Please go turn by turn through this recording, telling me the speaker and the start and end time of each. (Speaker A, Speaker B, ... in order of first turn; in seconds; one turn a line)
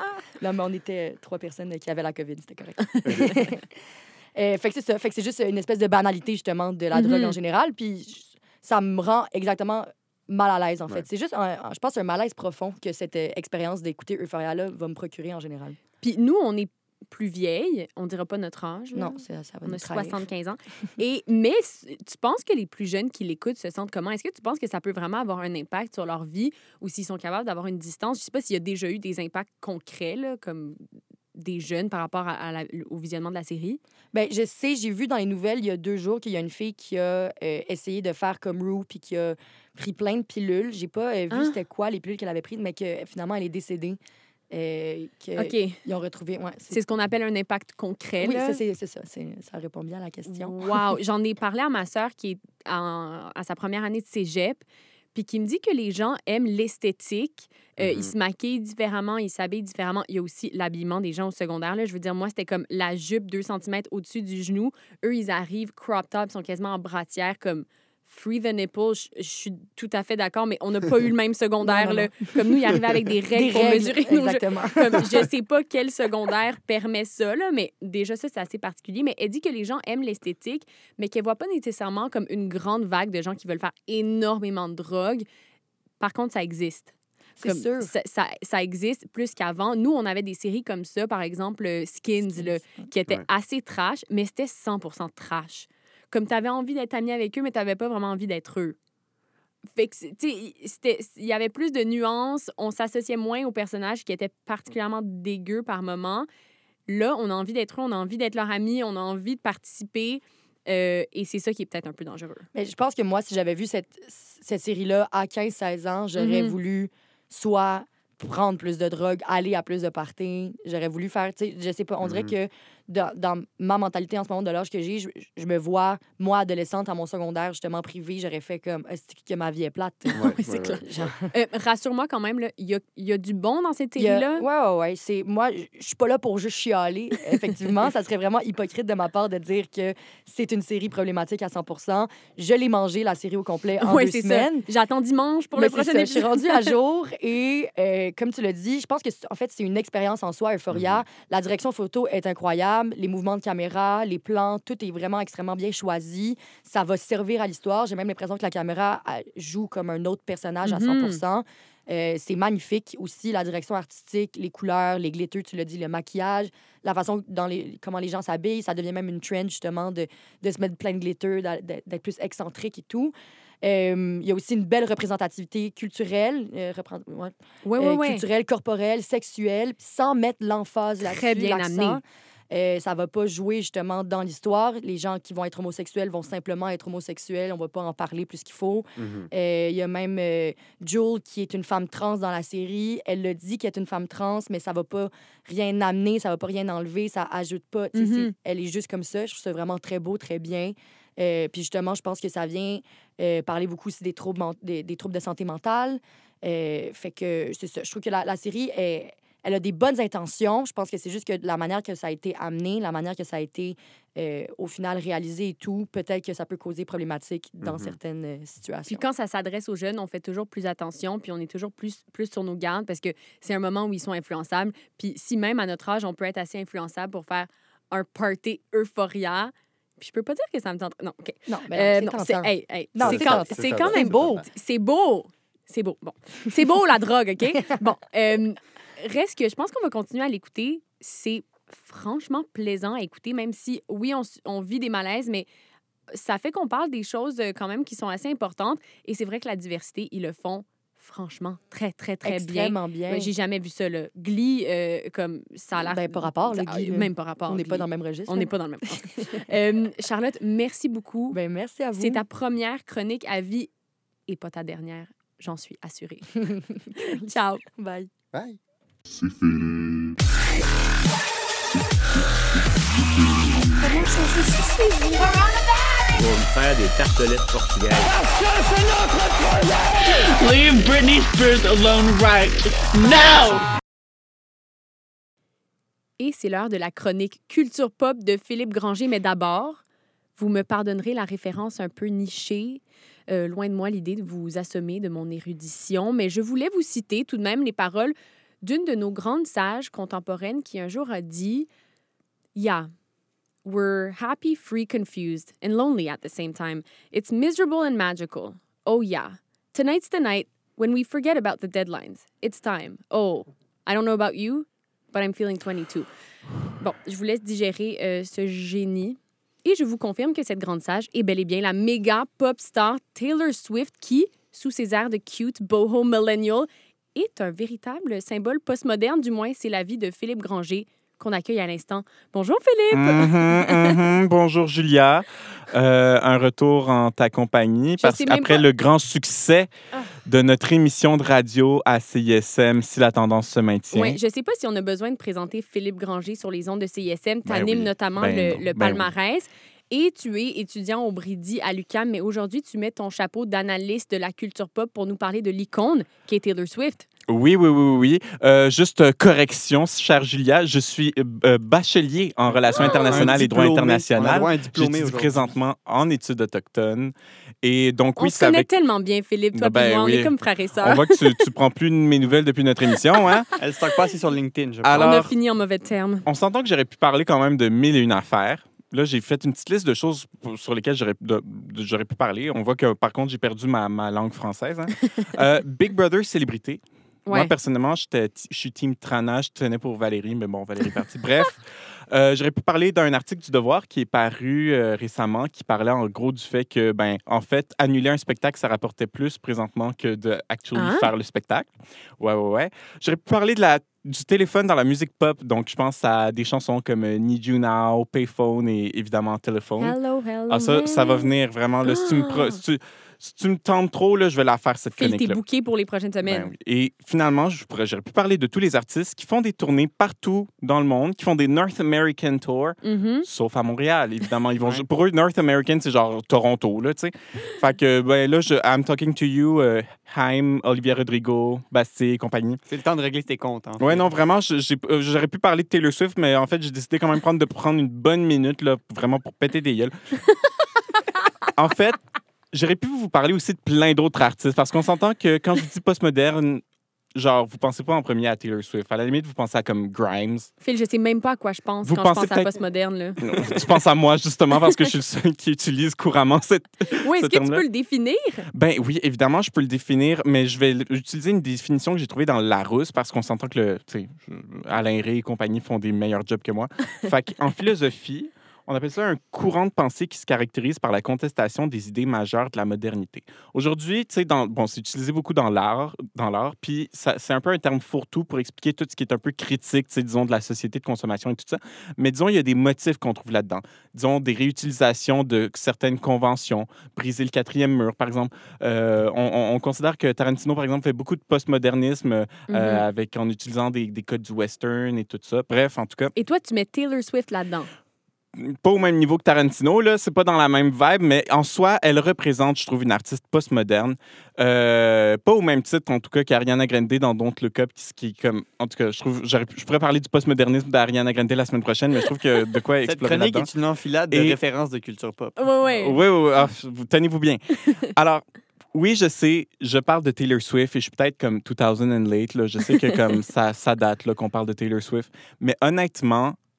Speaker A: 0.4-3.7
Speaker B: 3.0-3.4
Speaker A: 4.4-15.8
Speaker C: 6.9-7.3
Speaker C: 16.0-30.8
Speaker A: 18.9-20.2
Speaker C: 31.4-33.8
Speaker A: 34.1-44.0
Speaker C: 41.3-41.6
Speaker A: 44.5-46.8
Speaker C: 45.4-45.8
Speaker C: 46.7-48.6
Speaker A: 48.2-50.9
Speaker C: 50.2-85.2
Speaker B: 57.8-58.1
Speaker A: 71.6-72.8
Speaker A: 73.3-75.2
Speaker C: 86.0-98.8
Speaker A: 87.4-87.9
Speaker A: 92.2-92.9
Speaker C: 99.8-106.3
Speaker C: 106.9-112.5
Speaker A: 112.5-131.2
Speaker C: 116.2-116.6
Speaker B: 122.0-122.4
Speaker C: 130.1-134.4
Speaker B: 130.1-131.1
Speaker A: 134.0-144.7
Speaker C: 143.8-146.7
Speaker A: 145.6-219.0
Speaker B: 150.7-151.0
Speaker C: 160.6-161.2
Speaker C: 177.6-178.2
Speaker C: 181.0-182.0
Speaker B: 189.0-189.3
Speaker C: 197.9-198.3
Speaker B: 217.6-217.9
Speaker C: 218.9-245.4
Speaker A: 231.5-234.2
Speaker B: 233.0-234.4
Speaker C: 246.1-261.4
Speaker A: 252.2-253.3
Speaker A: 255.8-258.5
Speaker A: 261.3-262.2
Speaker C: 261.9-263.7
Speaker C: 264.3-266.3
Speaker A: 266.4-268.1
Speaker C: 267.1-267.6
Speaker B: 268.3-268.6
Speaker C: 273.8-275.4
Speaker D: 276.1-278.1
Speaker E: 280.0-283.6
Speaker C: 286.2-289.8
Speaker C: 290.4-301.7
Speaker C: 302.6-302.9
Speaker C: 303.6-316.1
Speaker C: 316.8-334.0
Speaker F: 332.9-339.7
Speaker C: 338.0-338.7
Speaker F: 340.2-344.2
Speaker C: 343.9-357.1
Speaker F: 347.4-349.1
Speaker F: 357.3-368.7
Speaker G: 362.5-365.6
Speaker C: 362.8-363.1
Speaker C: 368.2-371.4
Speaker F: 369.5-373.5
Speaker G: 373.6-375.2
Speaker F: 374.8-375.4
Speaker C: 375.0-376.3
Speaker F: 376.2-410.0
Speaker C: 387.3-387.5
Speaker C: 400.7-401.1
Speaker C: 409.8-411.3
Speaker F: 410.5-415.4
Speaker C: 411.8-412.6
Speaker C: 414.9-416.5
Speaker F: 416.2-432.6
Speaker C: 422.8-423.2
Speaker G: 432.7-434.1
Speaker F: 433.8-439.9
Speaker F: 441.6-442.0
Speaker F: 442.5-446.6
Speaker F: 447.1-450.5
Speaker C: 450.6-453.6
Speaker F: 451.8-452.5
Speaker F: 453.2-457.6
Speaker C: 457.0-458.5
Speaker F: 458.5-496.1
Speaker C: 492.5-492.9
Speaker C: 496.1-497.7
Speaker F: 498.4-513.5
Speaker G: 512.8-515.4
Speaker F: 514.1-514.4
Speaker C: 515.4-516.0
Speaker F: 515.6-526.4